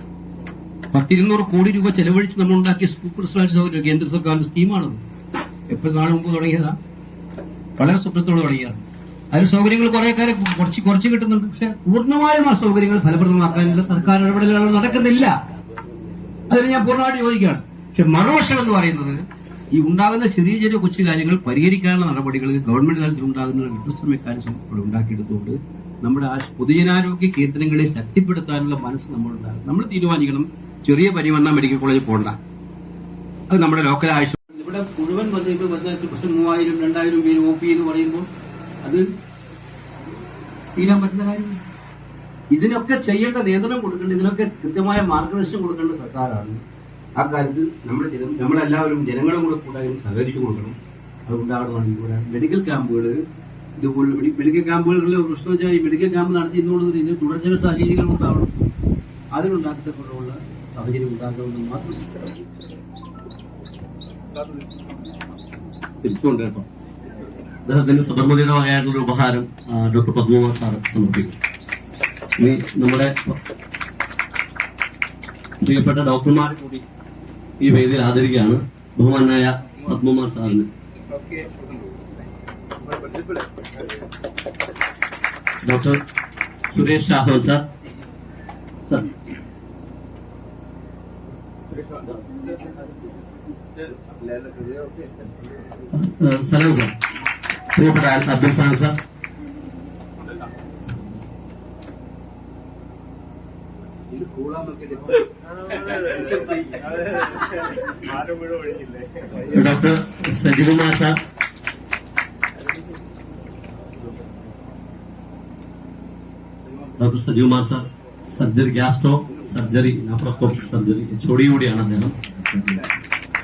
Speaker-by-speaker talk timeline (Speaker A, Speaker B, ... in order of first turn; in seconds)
Speaker A: 0.9-5.0, 5.7-6.8, 7.8-15.4, 16.5-32.4, 33.5-38.3, 40.8-41.6, 42.5-46.6, 47.1-50.8, 51.3-53.2, 53.8-58.5, 59.3-62.4, 81.0-82.1, 83.1-83.4, 91.7-92.2, 93.8-95.3, 104.1-107.2
Speaker B: 66.0-66.6, 67.6-71.3, 72.4-73.3, 75.6-76.8, 77.6-80.7, 85.6-86.0, 86.7-87.6, 95.9-96.9, 97.7-99.0, 109.5-111.1, 117.0-122.8